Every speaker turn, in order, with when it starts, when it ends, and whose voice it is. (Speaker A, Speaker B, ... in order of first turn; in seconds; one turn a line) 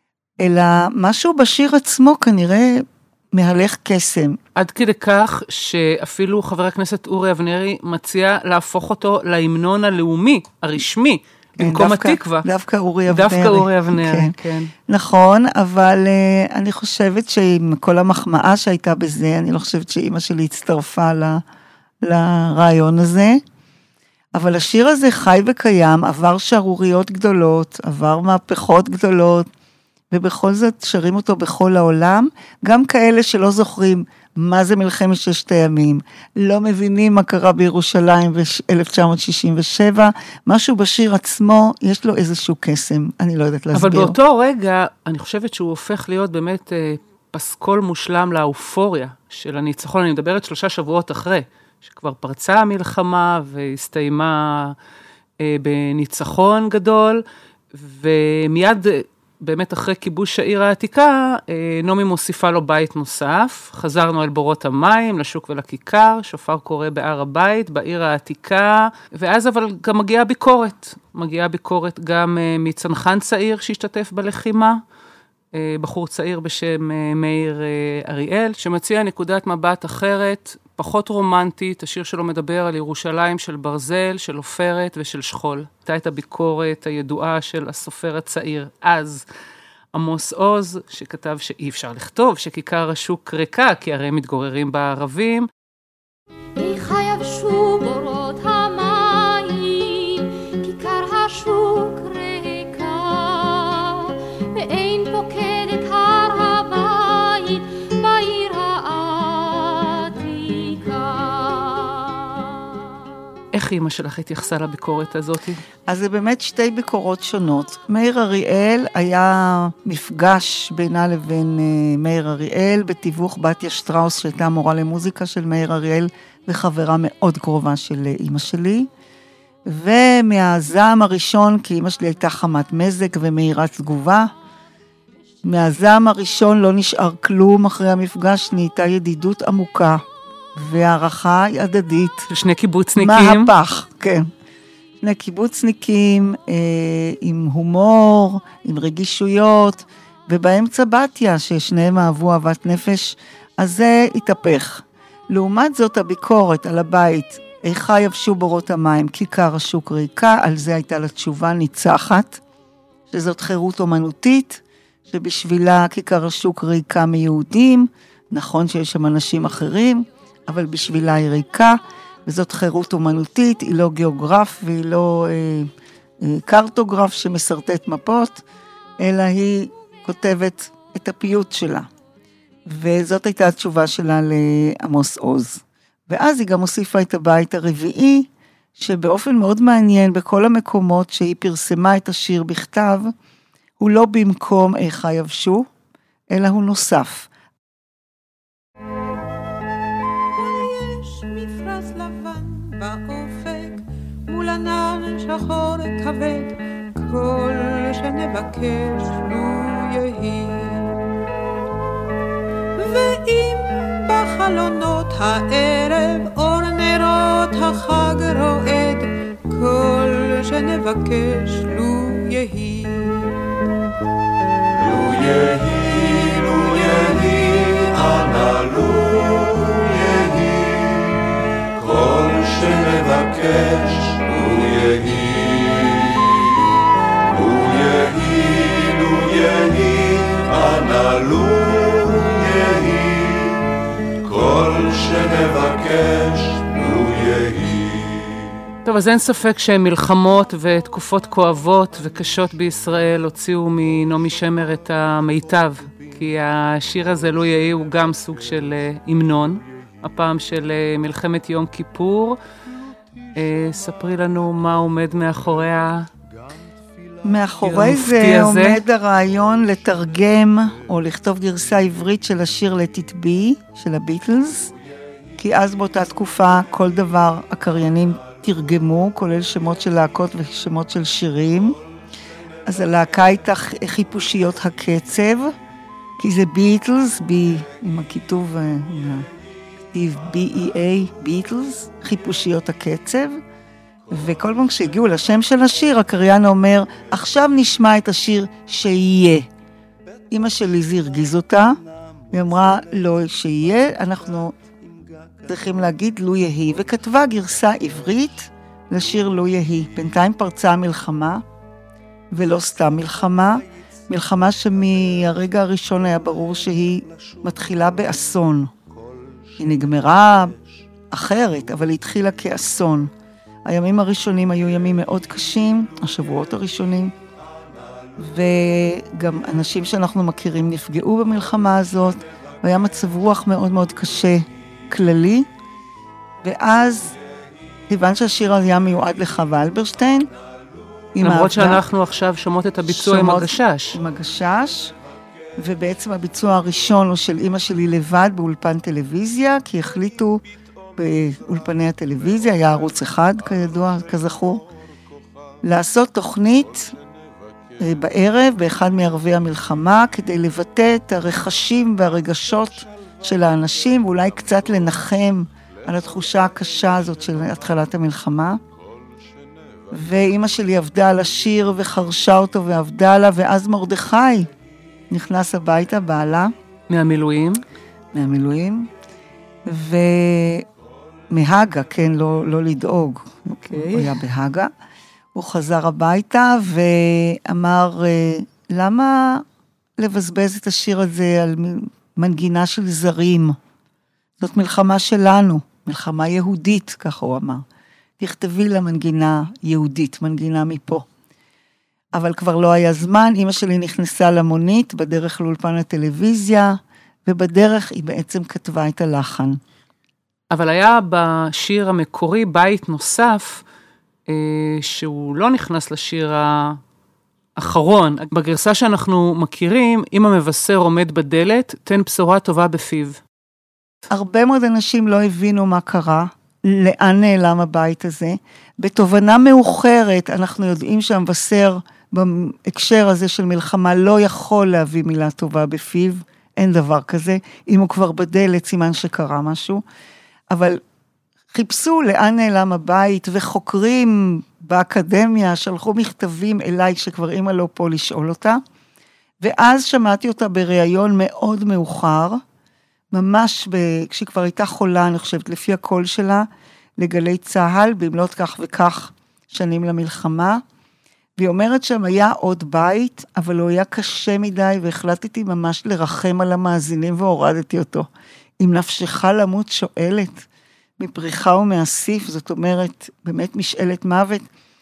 Speaker A: 0.4-4.4
Speaker B: 4.6-12.5
Speaker A: 11.6-14.4
Speaker B: 13.1-14.7
Speaker A: 14.9-21.4
Speaker A: 22.0-23.4
Speaker A: 24.3-29.5
Speaker A: 30.1-44.2
Speaker B: 43.7-54.8
Speaker B: 55.4-57.2
Speaker B: 57.8-74.8
Speaker B: 75.5-89.2
Speaker B: 89.9-95.5
Speaker C: 96.6-112.7
Speaker B: 113.5-115.6
Speaker A: 115.9-128.9
Speaker A: 129.7-134.3
Speaker A: 135.4-140.0
Speaker A: 140.6-142.3
Speaker B: 142.3-143.5
Speaker A: 143.0-144.3
Speaker A: 145.0-162.4
Speaker A: 163.1-175.7
Speaker A: 176.2-178.4
Speaker A: 179.0-181.9
Speaker A: 182.7-193.1
Speaker A: 193.8-195.7
Speaker A: 196.3-197.3
Speaker D: 200.3-211.0
Speaker D: 212.8-223.4
Speaker E: 224.8-231.2
Speaker E: 231.8-236.3
Speaker E: 237.3-243.6
Speaker E: 244.2-248.4
Speaker B: 248.8-262.4
Speaker B: 263.4-266.1
Speaker A: 267.2-274.7
Speaker B: 267.6-268.8
Speaker A: 275.4-281.8
Speaker A: 282.6-285.6
Speaker A: 286.2-289.3
Speaker A: 289.9-293.4
Speaker A: 294.1-299.5
Speaker A: 300.3-301.8
Speaker A: 302.3-304.6
Speaker A: 305.4-311.4
Speaker A: 312.3-318.7
Speaker A: 319.6-320.6
Speaker A: 321.1-323.1
Speaker A: 323.7-327.1
Speaker A: 328.2-335.5
Speaker A: 336.4-337.2
Speaker A: 337.9-340.3
Speaker A: 341.1-341.8
Speaker B: 341.2-344.0
Speaker A: 342.9-344.9
Speaker A: 345.6-350.4
Speaker A: 351.0-354.7
Speaker A: 355.6-356.9
Speaker A: 357.8-368.6
Speaker A: 369.9-374.5
Speaker A: 375.1-376.5
Speaker B: 376.9-377.6
Speaker A: 378.1-378.9
Speaker A: 379.7-380.7
Speaker A: 381.3-384.7
Speaker B: 383.7-384.1
Speaker A: 385.4-389.4
Speaker A: 390.0-393.6
Speaker A: 394.4-397.6
Speaker A: 398.2-401.1
Speaker A: 402.1-409.6
Speaker B: 410.5-413.6
Speaker B: 414.3-416.8
Speaker B: 417.6-423.2
Speaker A: 424.1-439.8
Speaker A: 440.5-440.8
Speaker A: 441.5-448.6
Speaker A: 449.4-452.4
Speaker A: 453.1-460.6
Speaker A: 461.4-468.1
Speaker A: 468.6-470.5
Speaker A: 471.0-474.5